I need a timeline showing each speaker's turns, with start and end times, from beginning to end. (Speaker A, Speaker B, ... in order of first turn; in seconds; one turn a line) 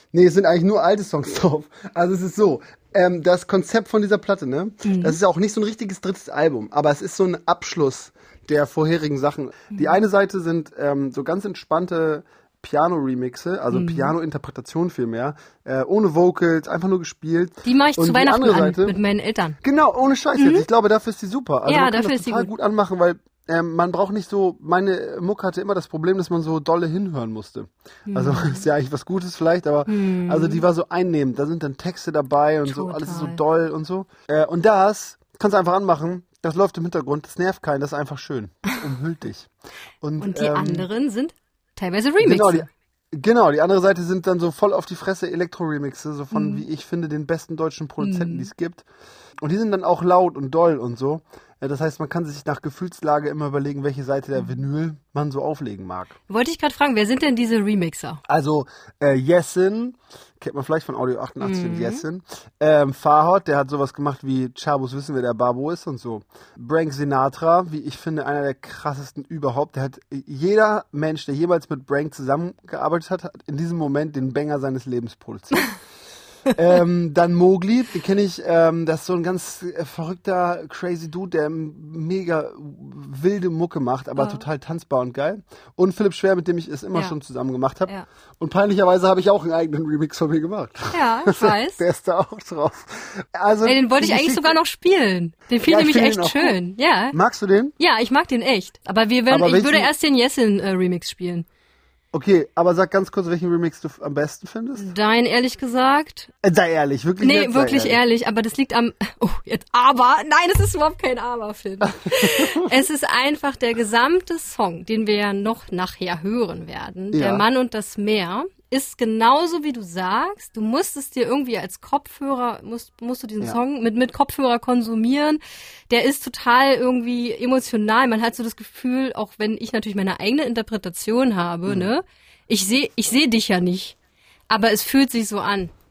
Speaker A: 0.1-19.0
Speaker B: 4.8-5.2
Speaker B: 13.7-14.2
Speaker B: 17.6-19.6
Speaker A: 19.6-39.5
Speaker B: 20.4-20.7
Speaker B: 21.7-22.5
Speaker B: 28.1-28.6
Speaker B: 29.9-30.6
Speaker B: 32.7-33.4
Speaker A: 40.0-40.9
Speaker B: 40.2-42.7
Speaker A: 42.2-48.9
Speaker B: 46.3-46.6
Speaker B: 48.0-48.5
Speaker A: 49.4-56.1
Speaker B: 56.3-58.2
Speaker A: 58.3-75.8
Speaker B: 61.4-62.0
Speaker A: 76.5-94.6
Speaker B: 84.2-84.4
Speaker B: 90.9-91.8
Speaker B: 93.6-97.2
Speaker A: 95.6-96.6
Speaker A: 97.1-97.8
Speaker B: 97.8-101.5
Speaker A: 99.3-99.9
Speaker A: 102.1-105.0
Speaker B: 104.8-106.3
Speaker A: 106.4-108.0
Speaker B: 107.2-133.9
Speaker A: 112.1-112.7
Speaker A: 117.1-117.5
Speaker A: 131.7-131.9
Speaker B: 134.5-135.7